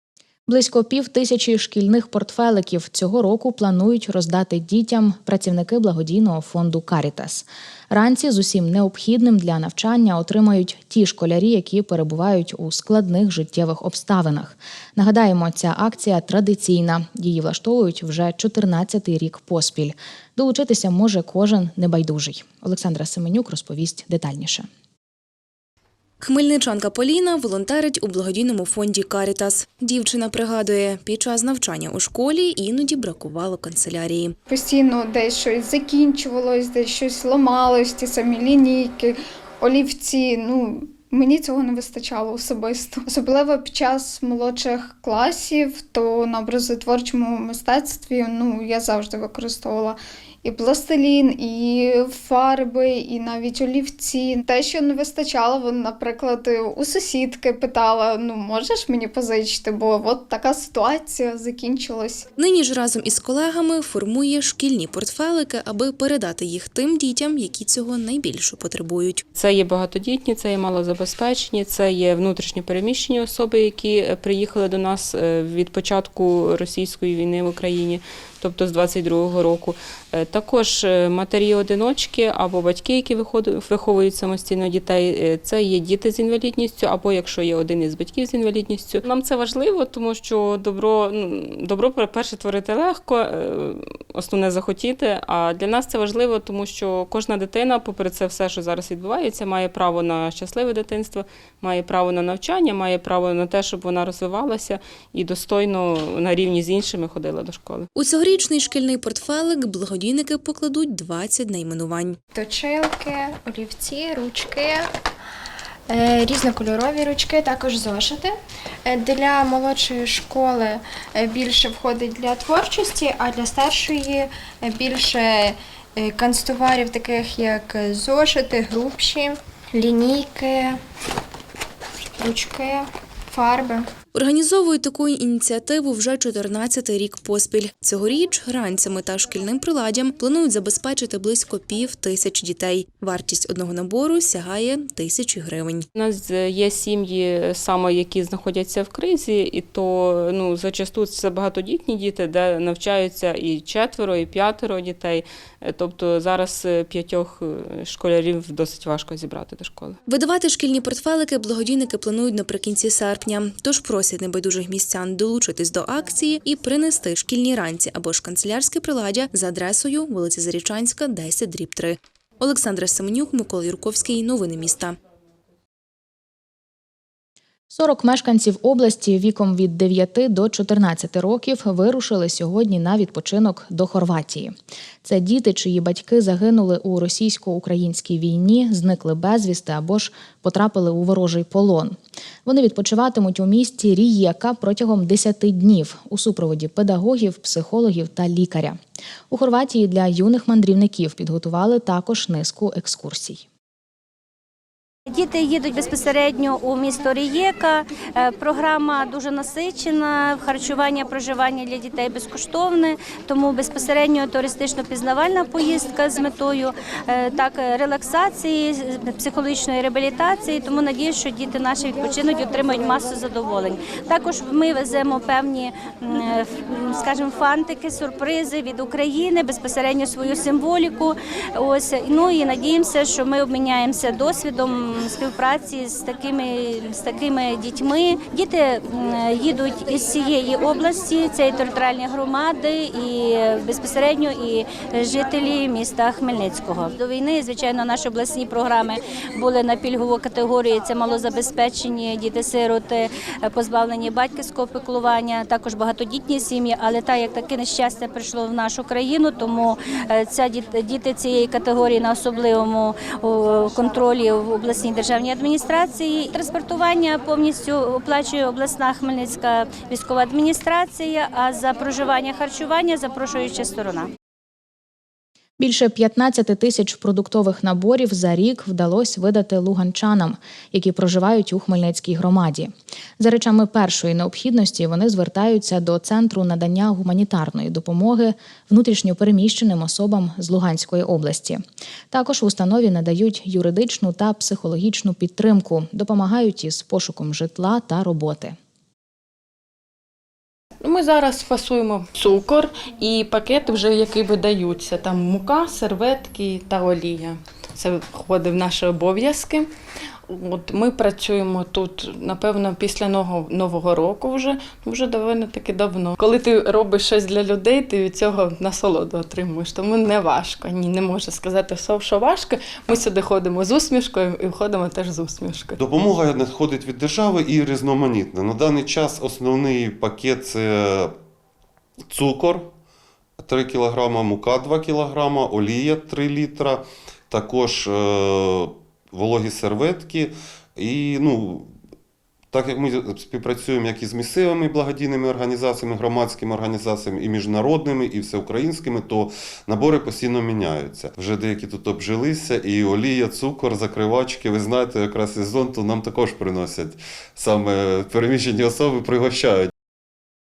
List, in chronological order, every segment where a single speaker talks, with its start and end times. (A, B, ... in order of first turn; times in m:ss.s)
0:00.5-0:24.7 A
0:26.2-0:34.4 B
0:34.5-1:02.2 C
1:02.4-1:09.2 B
1:09.4-1:47.9 D
1:48.0-1:52.2 B
1:52.4-1:54.9 E
1:55.9-1:58.3 E
1:58.8-2:10.7 E
2:12.2-2:13.8 E
2:14.1-2:25.8 B
2:26.0-2:40.0 D
2:40.1-2:55.0 B
2:57.7-3:18.8 A
3:19.3-3:23.4 A
3:25.1-4:34.1 F
4:35.6-4:58.6 A
5:00.8-5:09.7 G
5:10.3-5:25.8 G
5:25.8-5:31.1 H
5:32.1-5:32.7 H
5:33.4-5:41.7 H
5:42.5-5:59.7 H